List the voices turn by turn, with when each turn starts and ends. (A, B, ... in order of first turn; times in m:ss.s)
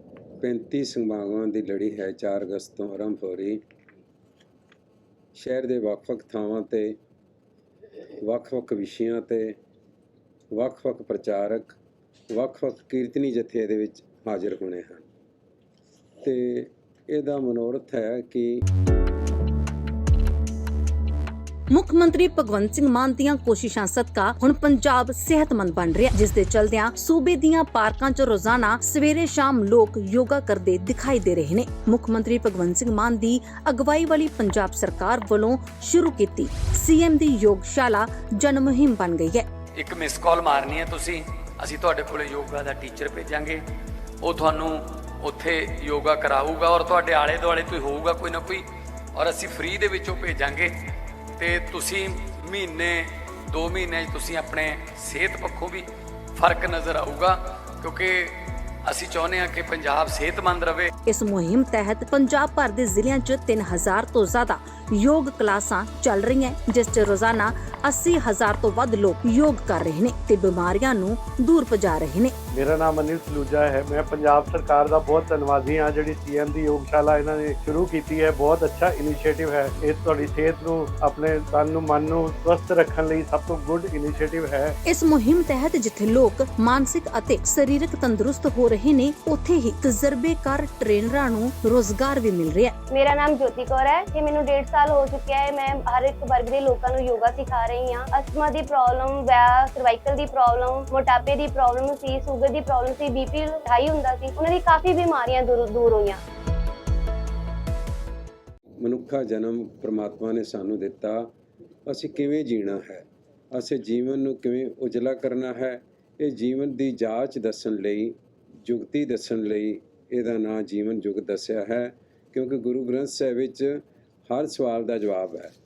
0:00.4-0:03.6 A
0:05.4-0:07.0 A
0:08.2-0:09.6 A
0:10.5-0:11.8 A
0:12.3-0:15.0 A
0:16.2-0:18.6 A
0:21.7-0:39.5 B
0:39.8-0:43.6 C
0:44.2-0:50.9 C
0:51.4-1:00.9 C
1:01.1-1:12.3 B
1:12.5-1:24.8 D
1:24.9-1:32.8 B
1:32.9-1:46.2 E
1:48.8-1:51.3 A
1:51.9-2:05.5 A